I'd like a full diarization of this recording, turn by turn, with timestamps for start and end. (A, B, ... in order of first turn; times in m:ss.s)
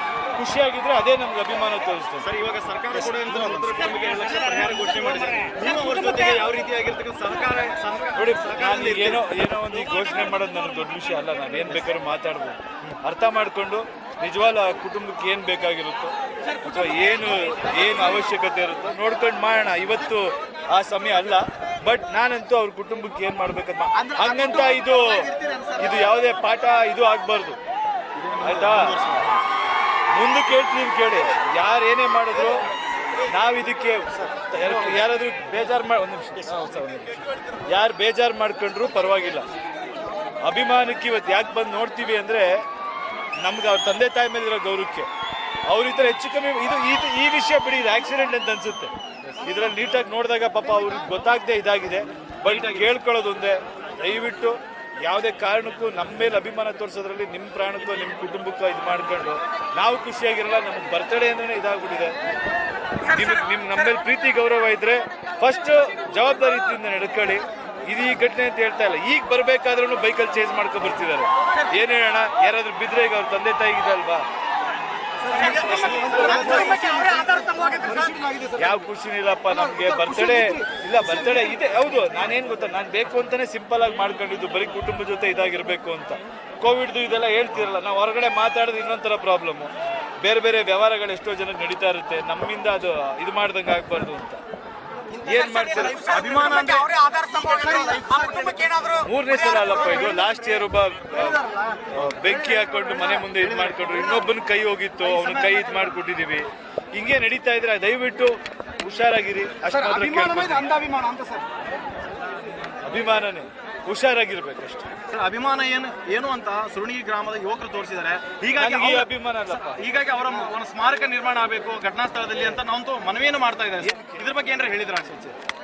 0:00.4-0:02.3 A
0:02.2-0:09.2 B
0:08.1-0:27.6 A
0:24.4-0:25.9 B
0:28.2-0:29.4 B
0:28.4-0:28.9 A
0:30.1-0:32.6 A
0:33.3-0:39.5 A
0:40.4-0:42.6 A
0:43.4-0:45.1 A
0:45.7-1:02.1 A
0:52.5-0:52.8 B
1:03.0-1:14.2 A
1:15.3-1:18.6 C
1:15.4-1:16.7 B
1:16.2-1:16.6 A
1:18.5-1:34.4 A
1:19.6-1:20.6 C
1:35.2-1:36.3 A
1:35.2-1:40.1 C
1:36.0-1:36.9 B
1:38.1-1:38.6 B
1:39.0-1:50.7 A
1:41.2-1:43.2 C
1:43.3-1:44.3 B
1:45.0-1:45.9 B
1:49.7-1:51.5 C
1:52.8-1:54.9 A
1:55.1-2:05.1 B
1:58.6-1:59.8 A
2:03.8-2:04.2 A
2:05.0-2:05.4 A